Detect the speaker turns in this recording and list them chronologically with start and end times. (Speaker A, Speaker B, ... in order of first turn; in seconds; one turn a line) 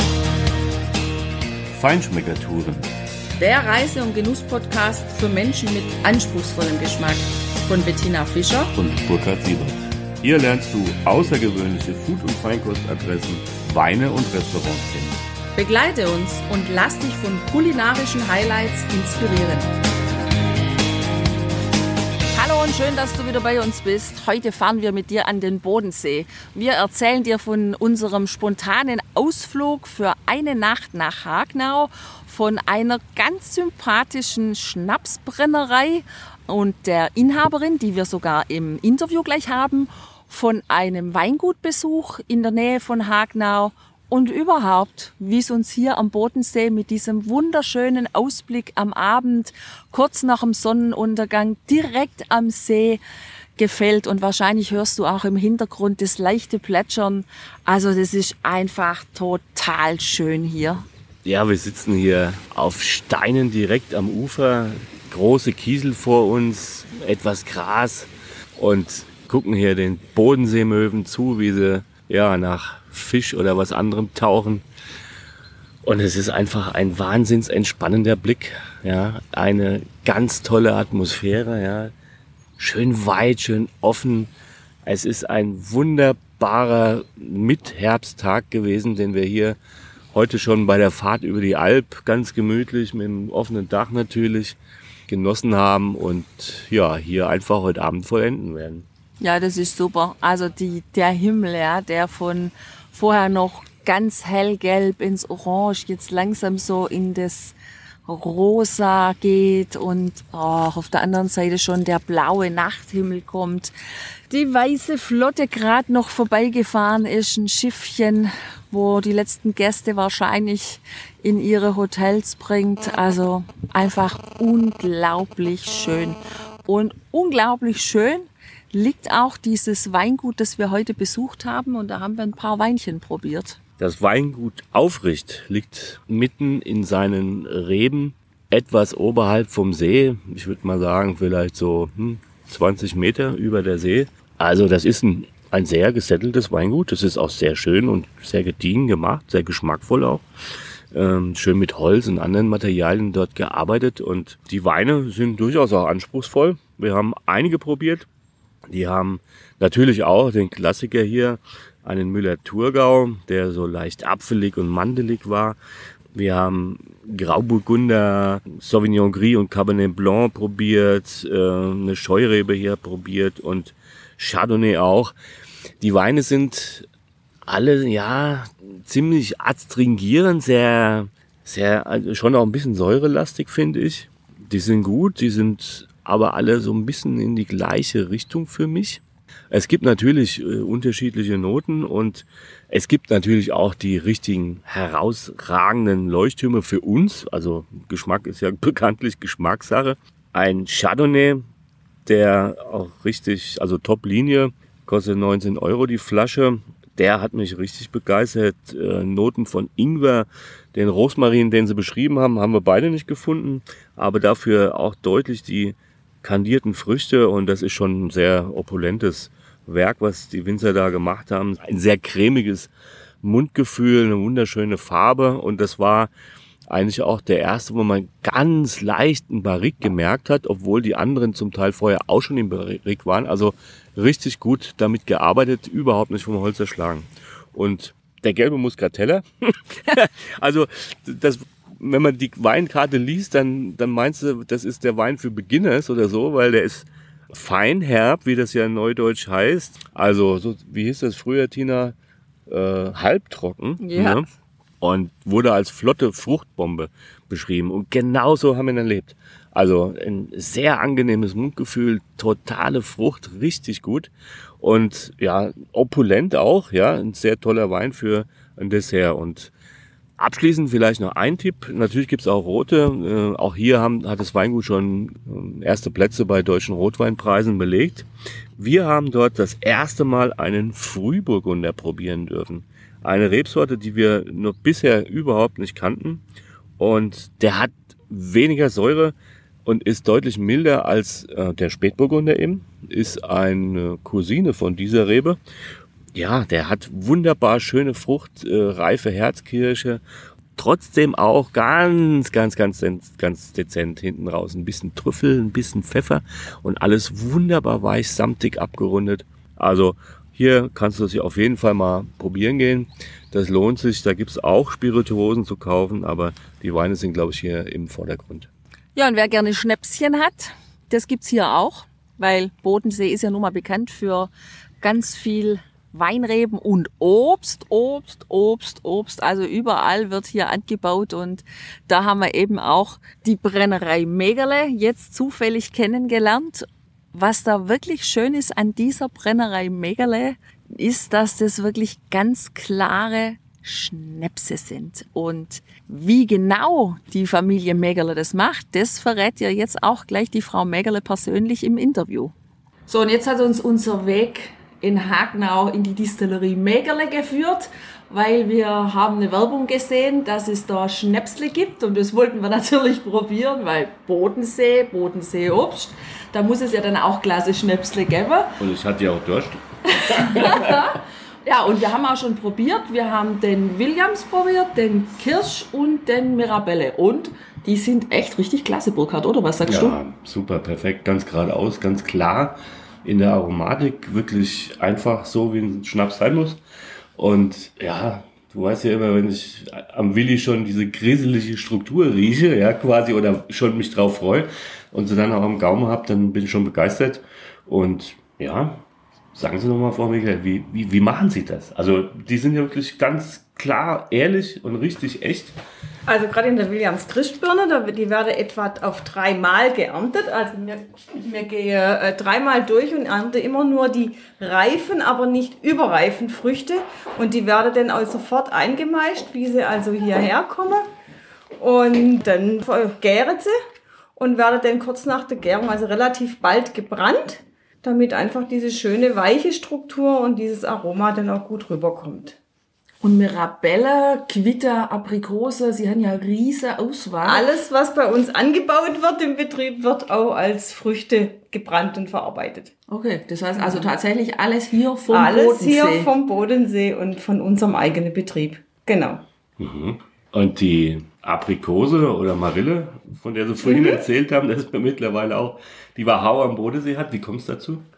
Speaker A: 1.7-2.9
Speaker B: 3.4-8.7
Speaker A: 8.7-15.2
Speaker B: 15.6-19.7
Speaker B: 22.3-53.0
Speaker B: 53.5-60.8
Speaker A: 61.2-74.7
Speaker A: 75.8-81.9
Speaker A: 82.6-84.3
Speaker A: 84.8-89.6
Speaker A: 90.1-98.8
Speaker B: 99.2-113.7
Speaker B: 114.3-133.6
Speaker A: 133.8-150.2
Speaker A: 150.9-158.1
Speaker A: 158.7-165.6
Speaker A: 166.1-175.1
Speaker A: 175.8-176.9
Speaker A: 177.5-201.4
Speaker A: 202.1-222.7
Speaker A: 223.2-226.1
Speaker A: 226.7-251.9
Speaker A: 252.5-254.2
Speaker B: 253.8-254.2
Speaker A: 254.8-269.5
Speaker A: 270.2-286.2
Speaker A: 286.8-295.4
Speaker A: 296.1-300.0
Speaker A: 300.6-318.5
Speaker B: 318.9-352.3
Speaker B: 352.9-368.6
Speaker A: 368.6-370.8
Speaker B: 370.1-380.0
Speaker A: 379.6-386.6
Speaker A: 387.1-398.8
Speaker A: 399.3-405.6
Speaker C: 406.1-420.9
Speaker C: 421.6-423.5
Speaker C: 424.2-432.4
Speaker B: 433.0-437.4
Speaker C: 437.2-442.7
Speaker B: 442.9-446.1
Speaker C: 443.5-443.9
Speaker C: 445.1-449.2
Speaker A: 449.6-457.9
Speaker C: 453.6-454.0